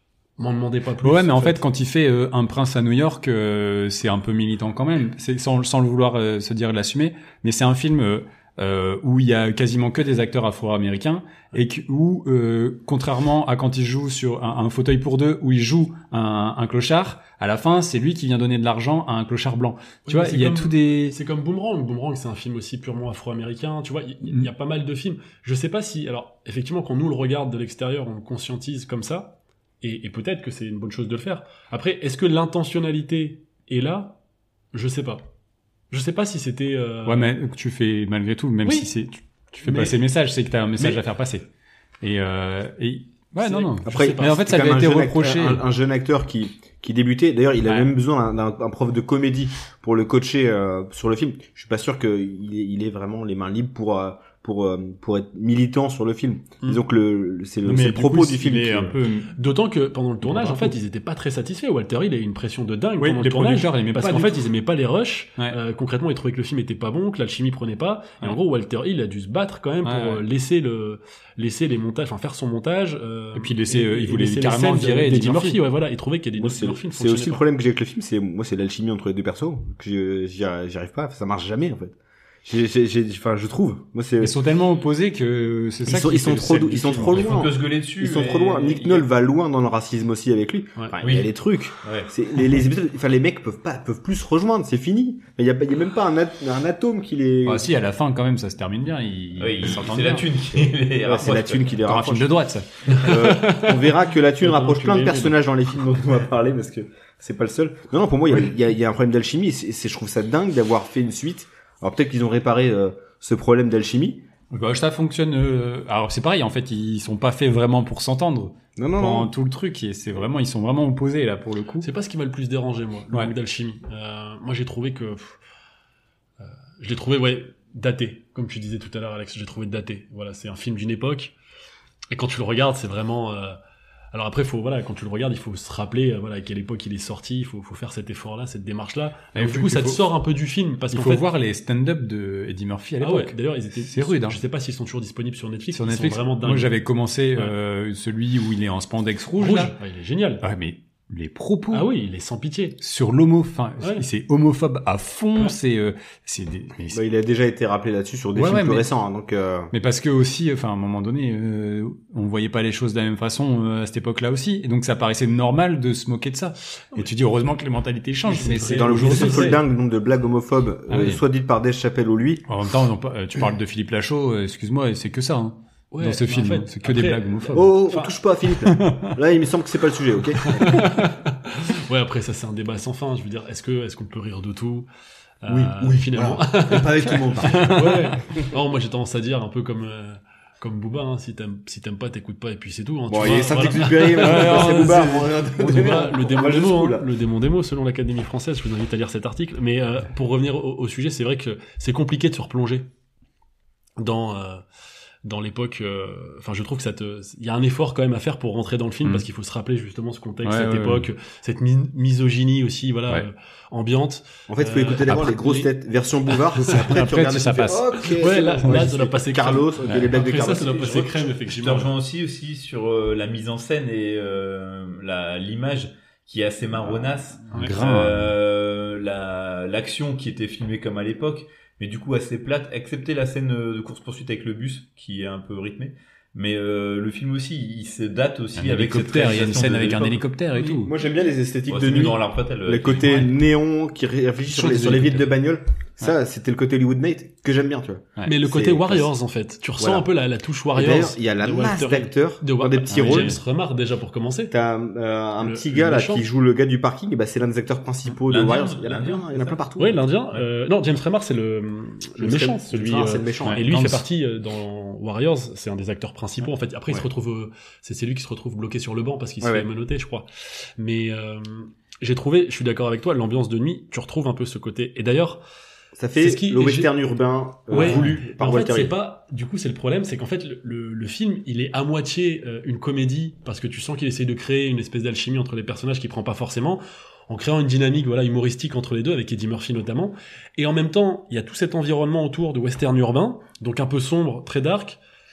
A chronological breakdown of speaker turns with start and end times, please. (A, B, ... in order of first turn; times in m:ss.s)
0:00.4-0:01.6 A
0:01.0-0:21.2 B
0:20.1-0:34.2 A
0:34.7-0:35.3 A
0:35.9-0:37.3 A
0:37.0-0:41.5 B
0:39.6-0:40.0 A
0:42.0-0:45.6 B
0:43.4-0:44.5 A
0:43.8-0:59.0 C
0:47.6-0:47.9 B
0:57.6-0:59.3 B
0:59.3-1:17.4 A
1:00.2-1:00.7 C
1:03.0-1:04.5 B
1:09.8-1:10.2 B
1:13.3-1:15.6 B
1:16.4-1:21.9 C
1:22.4-1:24.4 C
1:24.2-1:27.4 B
1:25.8-1:37.7 C
1:27.0-1:29.1 D
1:31.0-1:31.3 D
1:31.8-1:32.1 D
1:37.4-1:40.3 B
1:39.4-1:41.8 D
1:41.0-1:42.4 C
1:41.8-1:43.2 B
1:42.9-1:54.2 C
1:43.0-1:45.4 A
1:54.5-2:01.9 B
1:58.8-1:59.3 C
2:01.8-2:05.4 A
2:06.4-2:11.3 A
2:12.1-2:13.6 A
2:14.1-2:21.2 A
2:19.3-2:20.1 B
2:20.9-2:24.4 B
2:23.0-2:26.8 A
2:25.7-2:29.7 B
2:29.4-2:30.4 A
2:30.4-2:31.9 B
2:31.7-2:32.8 A
2:32.8-2:37.0 B
2:36.9-2:39.7 C
2:38.3-2:38.9 B
2:39.7-2:49.6 B
2:48.3-2:49.6 A
2:48.6-2:52.4 C
2:50.9-2:51.2 B
2:52.4-2:57.8 B
2:55.9-2:58.2 A
2:57.5-3:00.9 C
2:58.6-2:59.2 B
3:00.6-3:04.9 A
3:00.6-3:01.0 B
3:05.4-3:22.9 A
3:05.5-3:07.8 C
3:07.4-3:08.1 B
3:13.1-3:17.1 C
3:14.1-3:15.2 B
3:24.0-3:24.6 A
3:25.2-3:35.7 A
3:30.4-3:31.1 B
3:34.5-3:41.2 C
3:36.6-3:38.1 B
3:38.0-3:41.9 A
3:41.4-4:00.2 D
3:47.5-3:48.3 B
3:58.6-4:00.9 B
4:00.7-4:09.1 C
4:01.7-4:03.3 D
4:04.5-4:05.2 B
4:08.2-4:14.5 A
4:09.8-4:10.1 C
4:10.7-4:13.4 C
4:12.9-4:13.4 B
4:14.5-4:20.0 C
4:15.4-4:16.2 A
4:18.3-4:19.6 D
4:19.8-4:35.4 A
4:22.2-4:23.6 C
4:23.4-4:24.0 B
4:29.4-4:29.7 C
4:36.0-4:38.9 C
4:36.2-4:36.9 A
4:37.7-4:55.0 A
4:37.8-4:38.1 B